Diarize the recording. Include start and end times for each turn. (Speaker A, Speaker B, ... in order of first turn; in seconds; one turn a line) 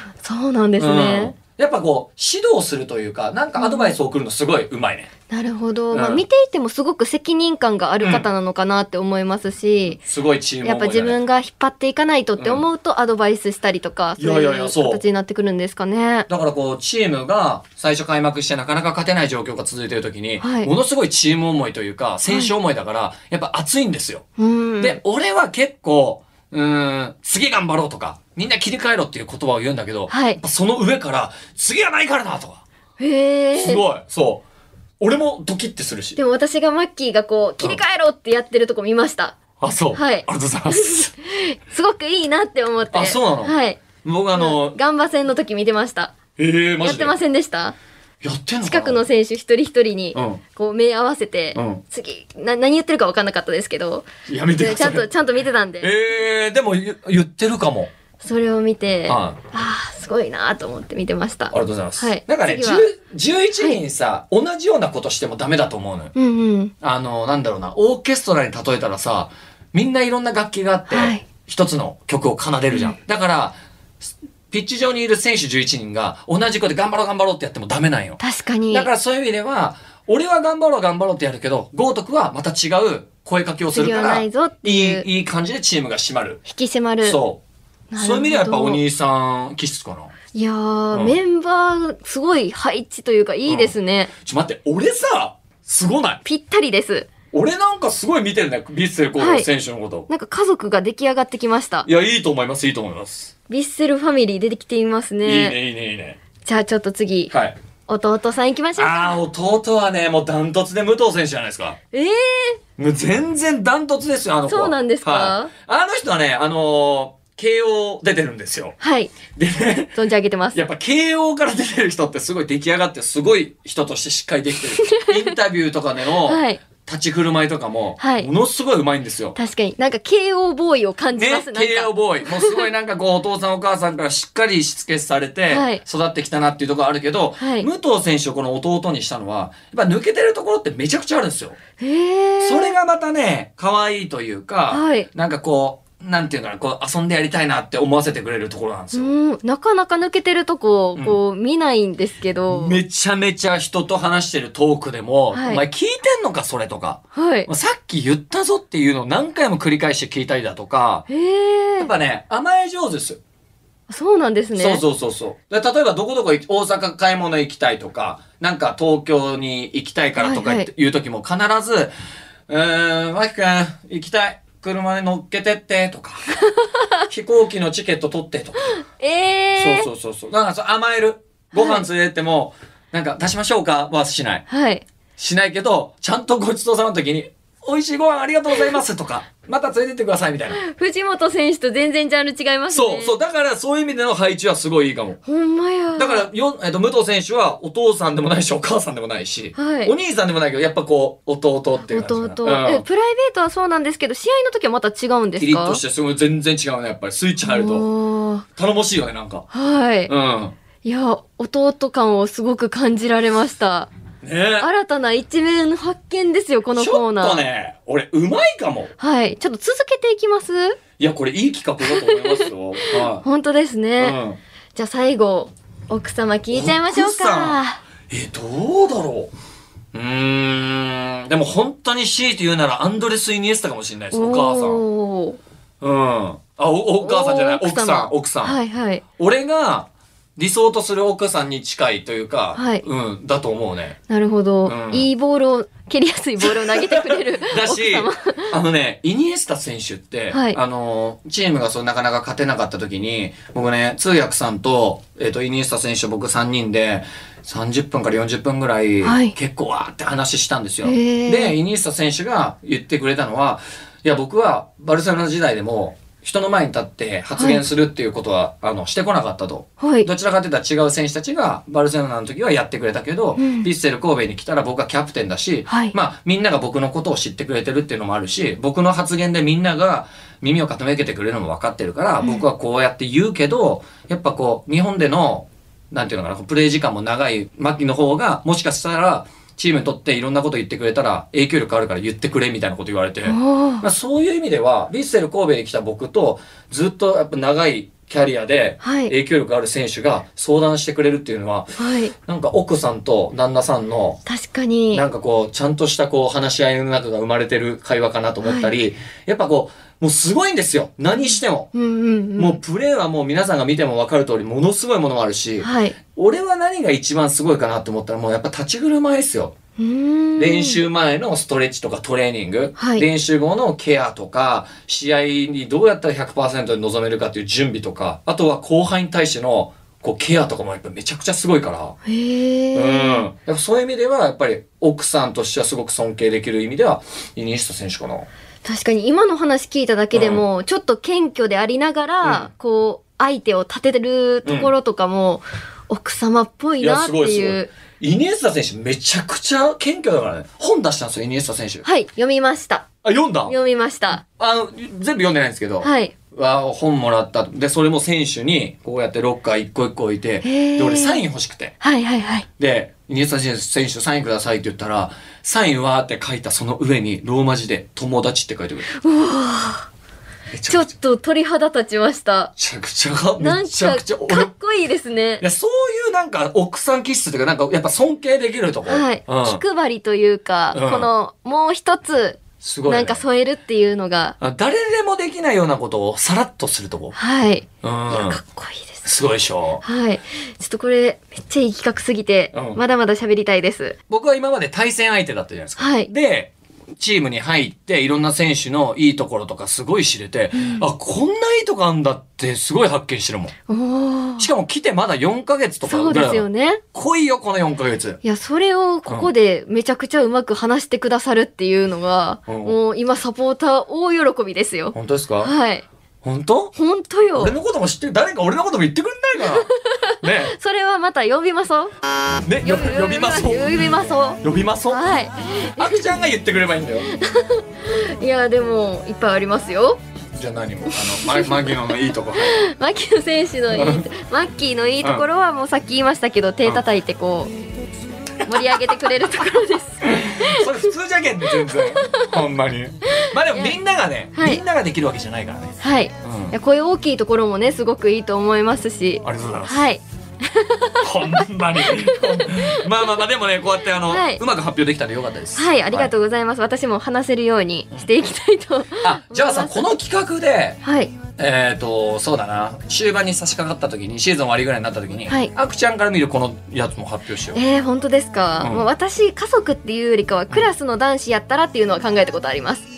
Speaker A: 0.2-1.3
Speaker B: 0.8-5.1
Speaker A: 3.6-4.0
Speaker A: 5.3-10.0
Speaker B: 5.9-6.2
Speaker B: 8.0-8.3
Speaker B: 10.0-11.2
Speaker A: 10.6-16.3
Speaker B: 12.4-12.6
Speaker B: 14.2-15.0
Speaker B: 16.3-24.2
Speaker A: 20.4-20.7
Speaker A: 22.3-22.5
Speaker A: 24.4-25.0
Speaker B: 24.8-32.6
Speaker A: 30.1-30.4
Speaker A: 33.0-33.8
Speaker B: 33.5-34.4
Speaker B: 35.0-36.2
Speaker A: 36.1-39.4
Speaker B: 39.6-41.1
Speaker A: 39.9-43.8
Speaker B: 42.9-44.8
Speaker A: 44.3-46.1
Speaker B: 46.4-47.2
Speaker A: 46.8-47.7
Speaker B: 48.2-49.0
Speaker A: 48.6-55.9
Speaker B: 50.1-50.4
Speaker B: 51.5-51.8
Speaker B: 54.3-55.1
Speaker B: 55.8-57.9
Speaker A: 58.2-62.9
Speaker B: 59.0-59.4
Speaker B: 61.5-66.1
Speaker A: 66.1-66.7
Speaker B: 66.8-73.6
Speaker A: 70.9-71.2
Speaker B: 74.5-78.2
Speaker A: 78.2-78.9
Speaker B: 78.7-86.4
Speaker A: 83.7-85.1
Speaker A: 86.5-87.2
Speaker B: 87.0-87.4
Speaker A: 87.9-88.8
Speaker B: 88.0-90.1
Speaker A: 90.3-94.1
Speaker B: 90.9-91.2
Speaker B: 93.5-96.2
Speaker A: 96.2-97.1
Speaker B: 97.3-100.1
Speaker A: 99.2-99.5
Speaker A: 100.1-101.9
Speaker B: 101.8-103.3
Speaker A: 103.5-105.6
Speaker B: 105.2-106.2
Speaker A: 106.4-107.3
Speaker B: 107.3-107.5
Speaker A: 107.9-109.2
Speaker B: 108.8-111.8
Speaker A: 111.9-112.6
Speaker B: 112.8-118.8
Speaker A: 114.5-115.5
Speaker A: 118.8-119.2
Speaker B: 119.3-120.0
Speaker A: 119.9-120.6
Speaker B: 120.5-129.3
Speaker A: 124.8-125.3
Speaker A: 126.2-126.6
Speaker A: 128.0-128.3
Speaker A: 129.3-132.7
Speaker B: 131.2-141.6
Speaker A: 135.5-135.8
Speaker A: 137.4-137.7
Speaker A: 141.8-142.7
Speaker B: 142.4-149.1
Speaker A: 144.7-145.1
Speaker A: 148.9-152.8
Speaker B: 152.5-161.1
Speaker A: 155.3-155.6
Speaker A: 157.1-157.5
Speaker A: 161.1-161.9
Speaker B: 161.8-163.2
Speaker A: 163.9-164.8
Speaker B: 164.6-171.9
Speaker A: 170.2-170.7
Speaker B: 172.5-176.3
Speaker B: 177.1-178.8
Speaker A: 178.6-179.9
Speaker B: 179.6-184.4
Speaker A: 181.5-181.8
Speaker A: 184.5-184.8
Speaker B: 185.2-190.6
Speaker A: 190.5-193.1
Speaker B: 192.7-195.2
Speaker A: 195.2-196.3
Speaker B: 196.0-202.8
Speaker A: 199.5-199.9
Speaker A: 201.9-205.8
Speaker B: 205.4-207.9
Speaker A: 207.4-208.4
Speaker B: 208.6-209.4
Speaker A: 209.5-210.1
Speaker B: 210.1-210.5
Speaker A: 210.8-213.9
Speaker B: 214.2-214.7
Speaker A: 214.6-217.4
Speaker B: 216.7-218.9
Speaker A: 219.0-220.8
Speaker B: 221.0-223.2
Speaker A: 221.8-224.2
Speaker B: 224.0-224.4
Speaker A: 224.7-227.8
Speaker B: 226.5-229.3
Speaker B: 229.9-234.8
Speaker A: 234.1-235.4
Speaker B: 235.8-238.6
Speaker A: 237.0-239.0
Speaker B: 239.2-244.0
Speaker A: 242.5-242.8
Speaker A: 244.1-248.5
Speaker B: 244.6-245.1
Speaker B: 246.4-301.7
Speaker A: 250.3-250.6
Speaker A: 259.0-259.3
Speaker A: 260.8-261.6
Speaker A: 267.4-267.6
Speaker A: 269.8-270.1
Speaker A: 273.4-273.7
Speaker A: 275.7-275.9
Speaker A: 293.2-293.9
Speaker A: 298.8-299.1
Speaker A: 301.8-302.1
Speaker B: 302.2-304.2
Speaker A: 304.2-305.0
Speaker B: 304.9-311.7
Speaker A: 308.4-308.7
Speaker A: 311.2-312.6
Speaker B: 312.4-319.5
Speaker A: 315.6-315.9
Speaker A: 319.8-320.8
Speaker B: 320.4-331.9
Speaker A: 322.8-323.1
Speaker A: 332.1-333.2
Speaker B: 332.7-338.3
Speaker A: 338.6-347.7
Speaker B: 340.1-340.4
Speaker B: 342.2-342.5
Speaker B: 344.4-344.7
Speaker B: 346.8-351.8
Speaker A: 351.8-352.9
Speaker B: 353.0-353.5
Speaker A: 353.5-354.2
Speaker B: 354.4-361.7
Speaker A: 355.8-356.1
Speaker A: 360.4-361.2
Speaker A: 361.8-362.4
Speaker B: 362.6-368.9
Speaker A: 368.9-369.9
Speaker B: 370.5-370.9
Speaker A: 370.7-372.5
Speaker B: 372.6-374.5
Speaker A: 373.4-375.4
Speaker B: 375.4-379.6
Speaker A: 378.9-384.4
Speaker B: 380.7-381.1
Speaker B: 382.6-383.2
Speaker B: 384.4-387.1
Speaker A: 387.1-389.1
Speaker B: 387.8-388.4
Speaker B: 389.0-389.8
Speaker A: 389.8-393.9
Speaker B: 392.5-392.8
Speaker B: 394.1-403.5
Speaker A: 395.8-396.1
Speaker A: 400.5-400.8
Speaker A: 403.7-404.5
Speaker B: 404.4-408.2
Speaker A: 405.8-406.8
Speaker A: 408.2-415.8
Speaker B: 412.5-412.8
Speaker B: 414.9-415.5
Speaker B: 416.2-416.7
Speaker A: 416.7-417.5
Speaker B: 417.4-419.7
Speaker A: 419.4-421.9
Speaker B: 420.2-420.6
Speaker B: 422.4-425.0
Speaker A: 422.6-426.2
Speaker B: 425.8-427.1
Speaker A: 427.0-430.0
Speaker B: 430.4-432.6
Speaker A: 430.9-437.5
Speaker B: 433.7-434.1
Speaker A: 438.4-440.9
Speaker B: 438.5-438.8
Speaker B: 440.0-446.6
Speaker A: 441.5-442.3
Speaker A: 443.2-443.8
Speaker A: 444.3-444.6
Speaker A: 445.8-453.2
Speaker B: 449.2-449.9
Speaker B: 451.0-456.1
Speaker A: 454.0-454.4
Speaker A: 455.6-459.9
Speaker B: 459.0-460.8
Speaker A: 460.8-461.1
Speaker B: 461.4-467.6
Speaker A: 467.5-472.9
Speaker B: 468.6-468.9